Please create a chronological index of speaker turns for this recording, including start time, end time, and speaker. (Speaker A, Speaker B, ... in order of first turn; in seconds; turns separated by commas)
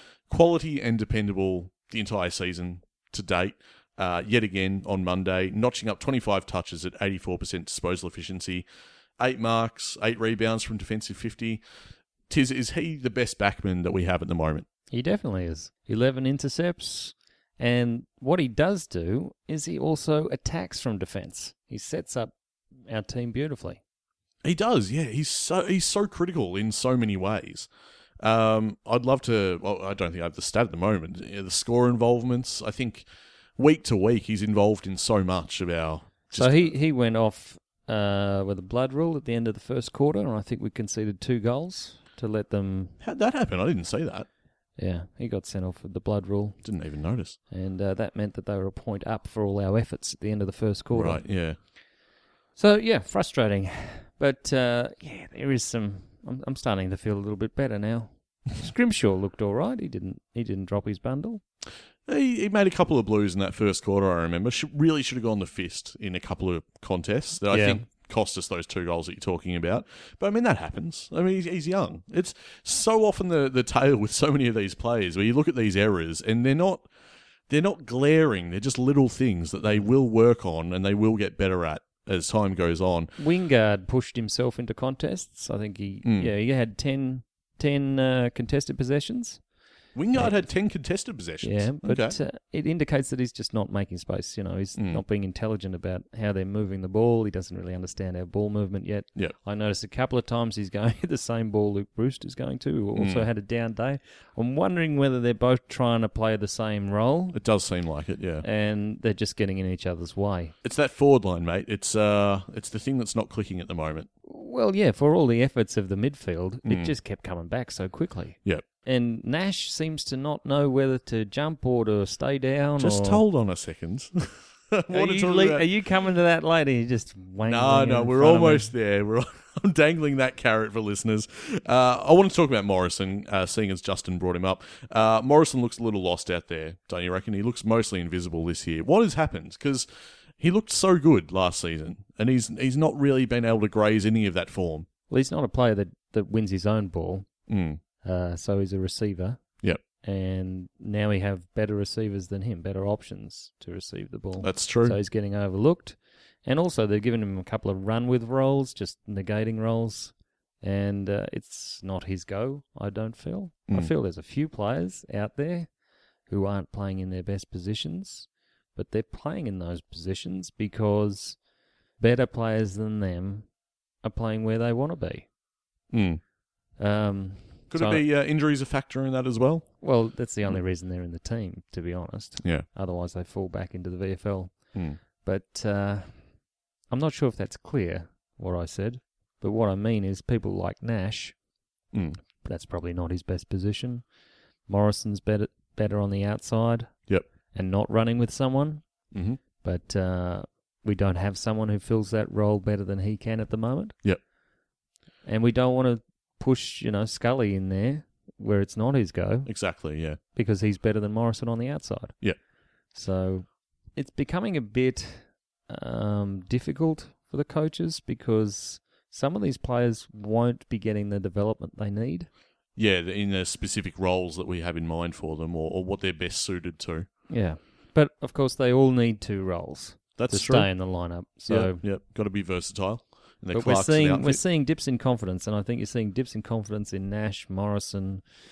Speaker A: 0.3-8.7, Speaker A: 9.2-11.6, Speaker A: 12.3-14.7, Speaker B: 14.9-22.3, Speaker B: 22.9-23.8, Speaker A: 24.4-27.7, Speaker A: 28.2-33.1, Speaker A: 33.6-36.7, Speaker B: 36.3-43.0, Speaker A: 43.0-44.3, Speaker B: 44.8-46.6, Speaker A: 46.6-47.4, Speaker B: 47.5-51.2, Speaker A: 50.9-51.6, Speaker B: 52.6-61.4, Speaker A: 62.1-76.9, Speaker B: 67.5-67.8, Speaker A: 77.5-83.1, Speaker B: 83.2-89.4, Speaker A: 86.0-86.3, Speaker A: 90.0-92.2, Speaker B: 90.2-90.4, Speaker B: 91.4-107.4, Speaker A: 94.8-95.0, Speaker A: 103.0-103.3, Speaker A: 107.3-108.4, Speaker B: 108.4-110.5, Speaker A: 110.6-114.1, Speaker B: 114.2-123.2, Speaker A: 116.7-116.9, Speaker A: 122.8-125.7, Speaker B: 124.9-128.7, Speaker A: 127.5-139.9, Speaker A: 140.4-144.9, Speaker B: 145.1-147.3, Speaker A: 147.5-147.8, Speaker B: 148.0-149.4, Speaker B: 150.0-165.7, Speaker A: 154.4-155.0, Speaker B: 166.3-171.4, Speaker B: 172.0-173.5, Speaker B: 174.0-175.3, Speaker A: 175.9-176.2, Speaker B: 176.8-178.0, Speaker A: 177.7-179.7, Speaker B: 179.8-186.1, Speaker A: 182.4-182.7, Speaker B: 186.9-191.4, Speaker B: 192.4-194.1, Speaker B: 194.7-196.9, Speaker B: 197.5-198.9, Speaker A: 199.1-199.4, Speaker B: 199.6-203.9, Speaker B: 205.2-209.5, Speaker A: 209.5-210.2, Speaker B: 210.3-212.2, Speaker B: 212.9-222.3, Speaker A: 222.8-227.1, Speaker B: 227.3-231.8, Speaker A: 230.2-230.9, Speaker A: 231.5-234.4, Speaker B: 233.5-238.3